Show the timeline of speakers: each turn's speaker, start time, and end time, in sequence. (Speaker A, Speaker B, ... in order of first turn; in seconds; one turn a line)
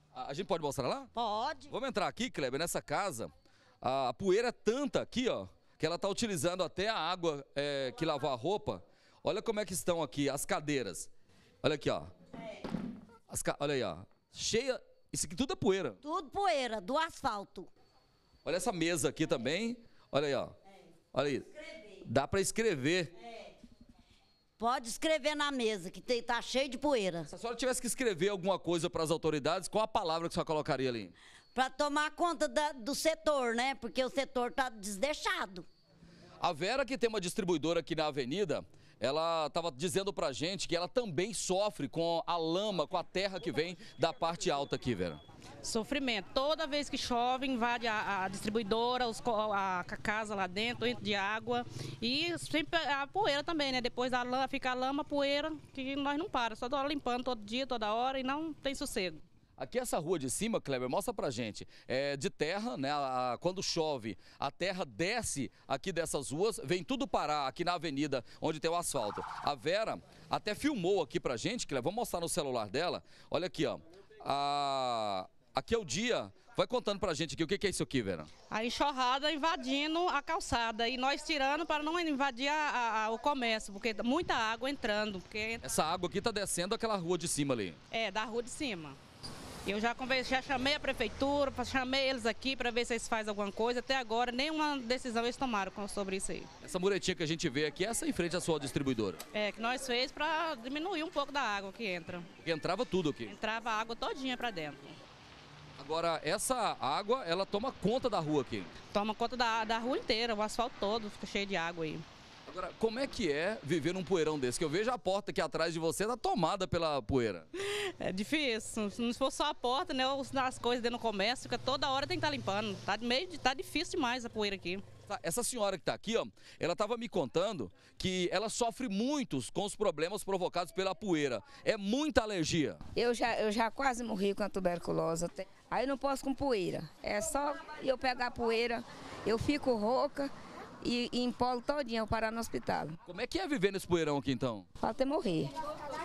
Speaker A: 0.1-1.1
Speaker B: 1.1-1.7
Speaker A: 1.7-11.1
Speaker A: 11.6-12.1
Speaker A: 13.3-16.0
Speaker B: 16.0-17.7
Speaker A: 18.4-20.5
Speaker A: 21.1-21.5
Speaker A: 22.0-23.1
Speaker B: 24.6-27.2
Speaker A: 27.3-31.1
Speaker B: 31.5-35.6
Speaker A: 36.4-45.2
Speaker C: 45.6-59.2
Speaker A: 59.6-78.3
Speaker C: 78.5-85.6
Speaker A: 85.6-87.8
Speaker C: 87.9-89.0
Speaker C: 89.7-96.5
Speaker A: 96.6-99.2
Speaker C: 99.3-102.3
Speaker A: 102.4-103.3
Speaker C: 103.2-105.0
Speaker A: 105.8-108.7
Speaker C: 108.9-112.0
Speaker A: 112.5-117.5
Speaker C: 117.6-124.8
Speaker A: 125.1-132.8
Speaker D: 132.9-140.3
Speaker D: 140.8-142.9
Speaker A: 143.1-144.7
Speaker D: 144.8-145.5